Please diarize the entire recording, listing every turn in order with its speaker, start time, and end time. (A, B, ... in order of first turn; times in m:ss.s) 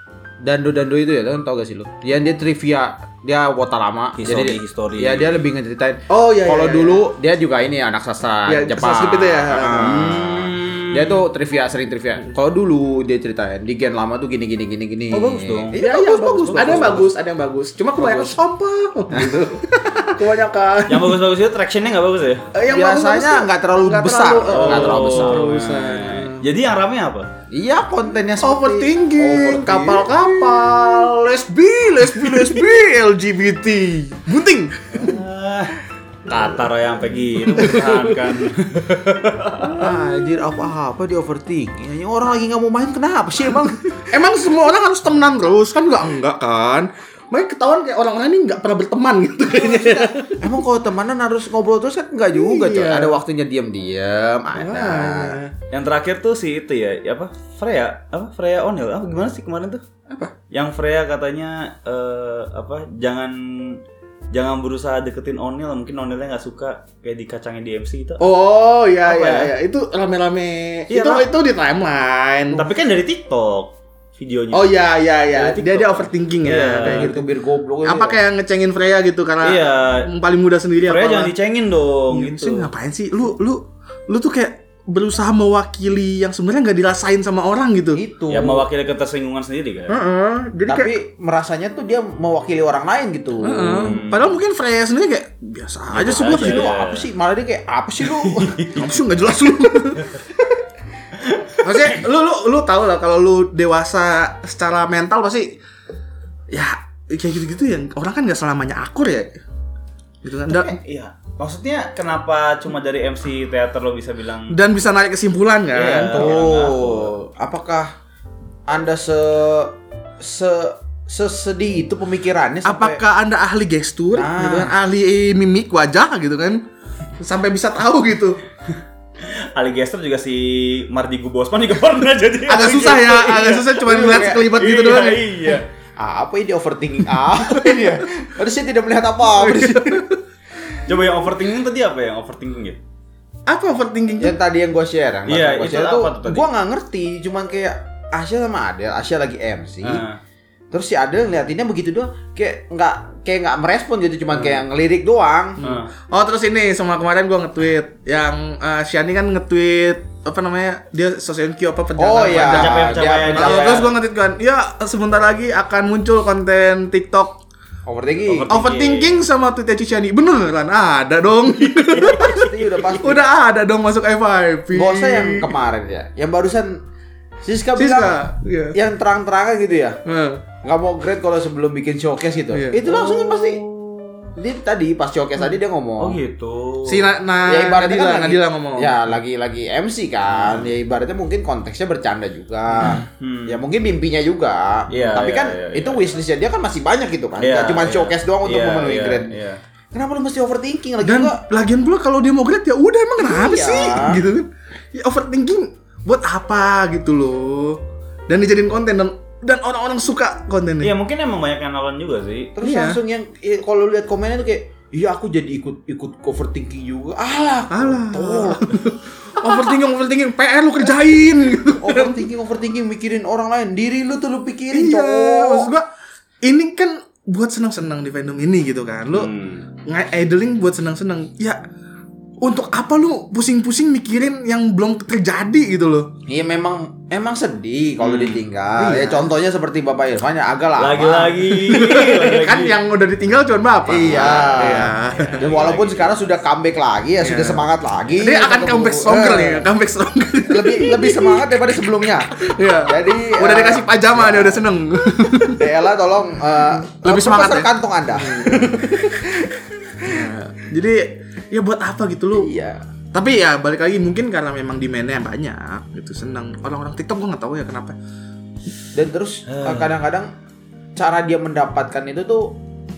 0:00.4-0:17.1 A
0:04.2-0:05.4 B
0:06.1-0:07.1 C
0:08.5-0:10.0 C
0:09.8-0:11.2 B
0:15.1-0:17.1 B
0:15.8-0:21.3 C
0:18.0-0:18.4 A
0:19.1-0:19.5 A
0:20.9-0:22.5 B
0:22.5-0:26.5 C
0:22.7-0:25.5 A
0:24.5-0:27.3 B
0:27.5-0:31.1 A
0:28.4-0:35.1 C
0:32.1-0:32.6 A
0:34.9-0:39.8 B
0:37.5-0:38.2 C
0:39.7-0:44.0 A
0:44.1-0:50.6 C
0:50.4-0:55.4 A
0:52.3-0:53.2 C
0:54.6-0:55.5 C
0:55.7-0:59.8 B
1:00.5-1:08.3 B
1:08.2-1:12.7 C
1:09.0-1:09.5 B
1:10.9-1:11.3 B
1:12.5-1:14.8 B
1:14.5-1:17.3 C
1:15.3-1:17.1 B
1:16.8-1:18.2 A
1:17.8-1:21.3 C
1:19.4-1:20.1 B
1:20.8-1:22.7 B
1:22.1-1:28.0 C
1:27.9-1:28.7 A
1:28.3-1:30.0 B
1:29.9-1:31.0 C
1:30.7-1:34.0 A
1:33.4-1:36.7 C
1:33.7-1:34.4 B
1:35.9-1:37.1 B
1:35.9-1:38.7 A
1:38.1-1:38.9 B
1:38.8-1:40.1 C
1:41.1-1:42.0 B
1:41.6-1:45.6 C
1:46.5-1:49.4 C
1:50.2-1:50.7 C
1:50.5-1:54.6 B
1:54.5-1:56.3 C
1:55.7-1:57.1 B
1:56.1-1:57.9 A
1:58.7-2:03.0 A
2:02.6-2:06.6 C
2:04.1-2:04.8 A
2:07.2-2:08.4 C
2:09.2-2:15.7 B
2:12.5-2:15.5 C
2:13.8-2:14.5 A
2:16.0-2:20.1 A
2:17.4-2:18.0 C
2:19.3-2:20.2 C
2:20.8-2:22.8 B
2:23.5-2:24.4 C
2:24.2-2:30.0 A
2:25.3-2:26.5 B
2:29.8-2:30.2 B
2:30.7-2:35.6 A
2:35.6-2:47.4 C
2:35.6-2:35.9 B
2:42.0-2:43.9 A
2:42.3-2:43.9 B
2:47.8-2:48.5 A
2:48.3-2:49.2 B
2:48.5-2:55.5 C
2:51.6-2:52.5 B
2:52.1-2:53.3 A
2:54.7-2:56.8 A
2:57.4-2:58.2 A
2:57.8-2:58.8 C
2:58.7-3:00.0 A
3:00.0-3:00.4 C
3:00.6-3:03.6 A
3:02.5-3:02.9 C
3:02.8-3:04.3 B
3:04.4-3:06.2 A
3:06.0-3:07.1 B
3:06.9-3:09.0 C
3:07.4-3:19.4 A
3:10.3-3:10.7 B
3:12.8-3:13.6 B
3:14.9-3:16.1 B
3:17.4-3:19.6 B
3:19.9-3:21.4 A
3:21.0-3:30.9 C
3:23.2-3:24.2 A
3:30.8-3:32.6 B
3:32.6-3:38.8 A
3:32.6-3:33.0 C
3:37.7-3:42.2 C
3:41.8-3:45.7 A
3:44.7-3:45.8 C
3:46.4-3:49.3 C
3:49.1-3:49.7 B
3:49.9-3:51.6 C
3:52.4-3:56.1 C
3:56.3-4:01.6 A
3:58.0-3:58.4 B
3:58.8-3:59.3 C
4:00.8-4:02.8 B
4:01.7-4:05.4 C
4:03.9-4:09.7 A
4:04.0-4:06.4 B
4:07.2-4:07.7 C
4:08.2-4:11.5 C
4:10.5-4:14.6 A
4:12.4-4:15.7 C
4:15.4-4:20.3 A
4:16.7-4:19.3 C
4:20.0-4:22.5 C
4:22.3-4:22.8 A
4:23.1-4:28.0 C
4:28.9-4:30.3 A
4:29.5-4:30.0 B
4:31.0-4:32.6 A